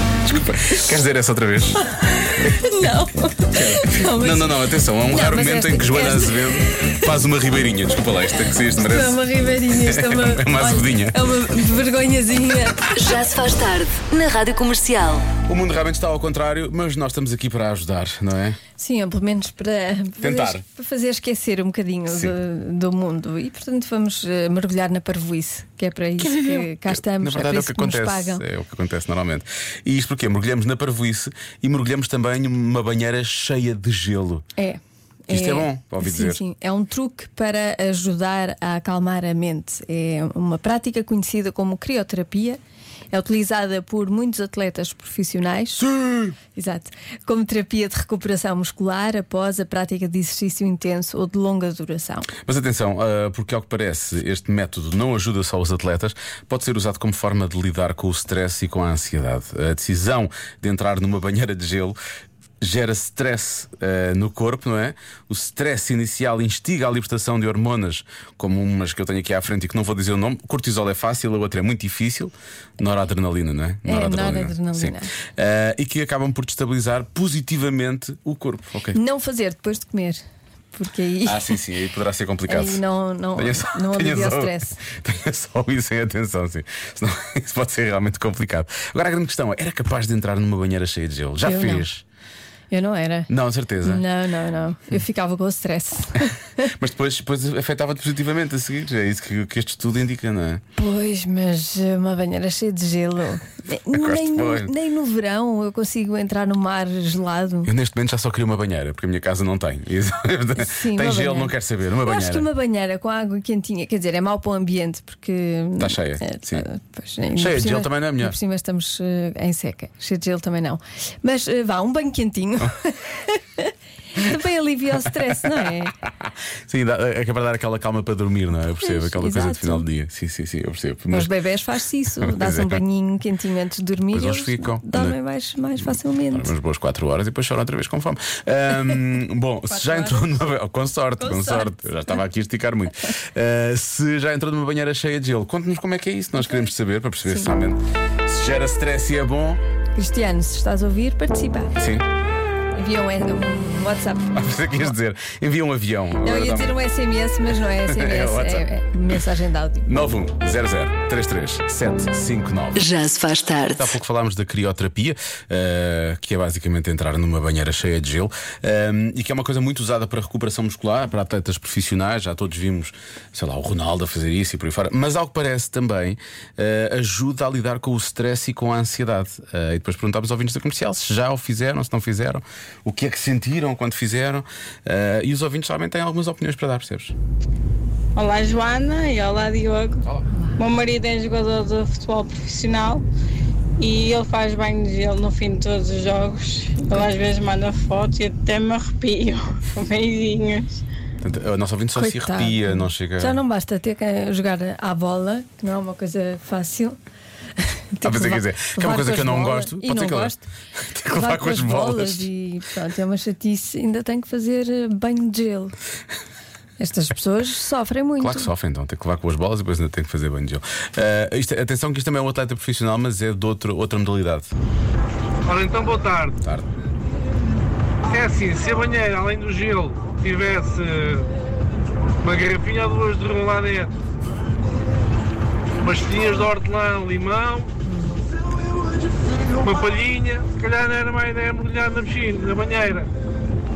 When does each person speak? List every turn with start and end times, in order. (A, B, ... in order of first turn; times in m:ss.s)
0:00.3-0:02.6 A
0:02.4-0:07.0 B
0:03.5-0:11.2 A
0:08.8-0:12.8 B
0:13.0-0:15.2 C
0:15.4-0:18.6 A
0:18.8-0:28.4 B
0:20.2-0:20.6 A
0:22.1-0:22.4 A
0:26.2-0:34.4 A
0:34.6-0:42.6 B
0:35.3-0:36.4 A
0:43.1-0:45.9 B
0:45.8-0:46.4 A
0:46.5-0:52.3 B
0:52.4-1:02.0 A
1:02.6-1:19.0 A
1:13.9-1:15.1 B
1:18.9-1:20.2 B
1:20.7-1:21.6 B
1:21.3-1:22.8 A
1:22.5-1:24.8 B
1:23.3-1:32.0 A
1:31.4-1:31.9 B
1:32.7-1:33.3 B
1:33.3-1:34.0 A
1:33.8-1:36.3 B
1:36.7-1:40.6 A
1:40.8-1:47.7 B
1:43.9-1:44.7 A
1:47.6-1:52.5 A
1:50.6-1:51.5 B
1:52.0-2:06.0 B
1:55.8-1:56.7 A
1:57.4-1:58.4 A
2:06.6-2:11.3 A
2:08.8-2:09.9 B
2:11.1-2:16.5 B
2:12.2-2:12.8 A
2:14.1-2:15.2 A
2:15.8-2:29.6 A
2:19.7-2:20.5 B
2:21.2-2:21.8 B
2:27.3-2:27.6 B
2:30.0-2:31.8 B
2:31.8-2:32.1 A
2:32.7-2:34.3 B
2:34.3-2:36.8 A
2:36.2-2:39.9 B
2:37.5-2:38.7 A
2:39.9-2:42.9 A
2:42.8-2:43.8 C
2:43.7-3:07.2 A
3:08.2-3:10.0 D
3:10.6-3:13.0 D
3:13.8-3:20.8 D
3:21.2-3:23.4 A
3:22.0-3:27.0 B
3:27.6-3:30.5 B
3:28.0-3:32.3 A
3:31.1-3:35.8 B
3:36.8-3:38.5 B
3:38.2-3:44.5 A
3:45.5-3:46.4 E
3:46.4-3:46.7 A
3:48.1-3:51.3 E
3:52.2-3:53.9 E
3:55.8-3:57.7 E
3:57.9-3:58.2 B
3:59.6-4:03.1 E